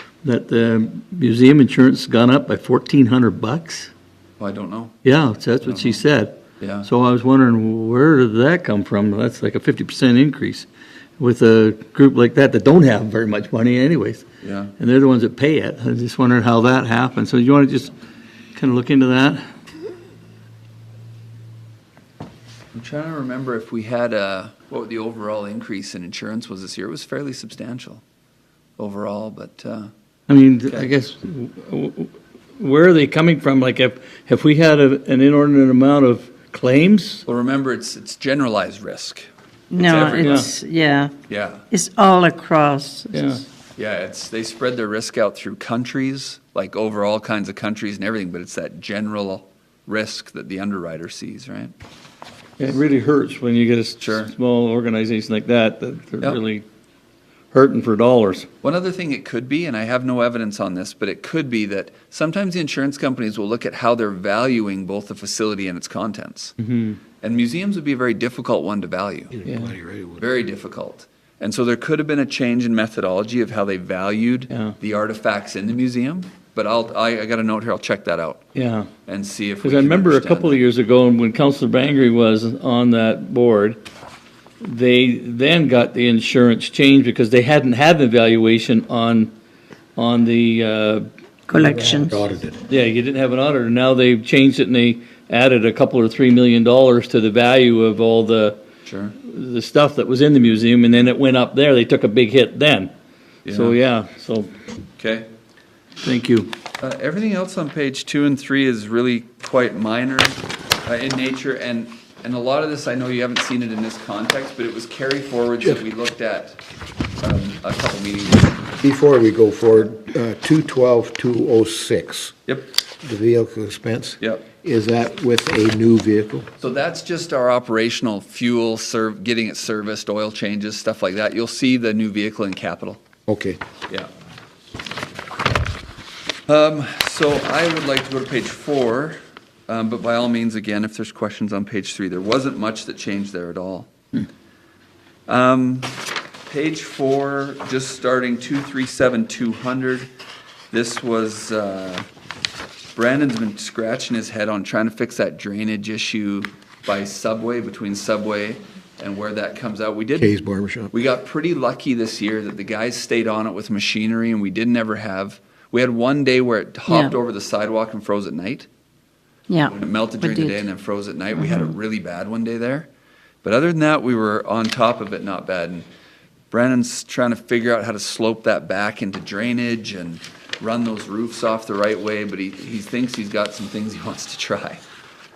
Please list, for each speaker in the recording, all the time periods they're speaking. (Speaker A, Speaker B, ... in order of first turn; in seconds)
Speaker A: 0.2-3.9, 5.0-10.7, 11.2-14.2, 14.8-17.9, 18.5-19.4, 30.3-37.2, 39.8-40.5, 43.1-43.4, 52.6-56.6, 57.5-58.5, 66.6-67.0, 69.5-69.7, 78.5-78.9, 79.6-83.8, 84.6-89.3, 90.0-91.1, 92.7-98.6, 99.2-102.9, 103.5-104.5, 106.0-106.5
Speaker B: 4.4-5.0, 5.6-6.0, 6.6-6.9, 14.4-14.7, 22.7-28.0, 28.8-29.9, 37.2-39.3, 39.8-40.5, 41.3-41.6, 43.8-51.7, 54.0-54.3, 58.6-66.5, 67.2-69.3, 70.2-78.4, 79.1-80.6, 98.8-99.1, 103.4-103.8, 105.0-105.3, 106.8-116.6, 117.2-118.6, 122.5-122.7, 124.2-124.5, 126.6-133.0, 136.5-143.9, 145.3-150.1, 150.7-152.0, 152.9-160.3, 160.9-168.7, 169.7-172.9, 173.4-175.8, 176.5-184.8
Speaker C: 39.7-41.1, 41.7-43.4, 91.5-92.2, 166.9-167.1, 169.5-170.6
Speaker D: 69.3-70.3, 91.6-92.6, 118.8-122.3, 123.0-126.5, 133.3-133.6, 160.2-160.9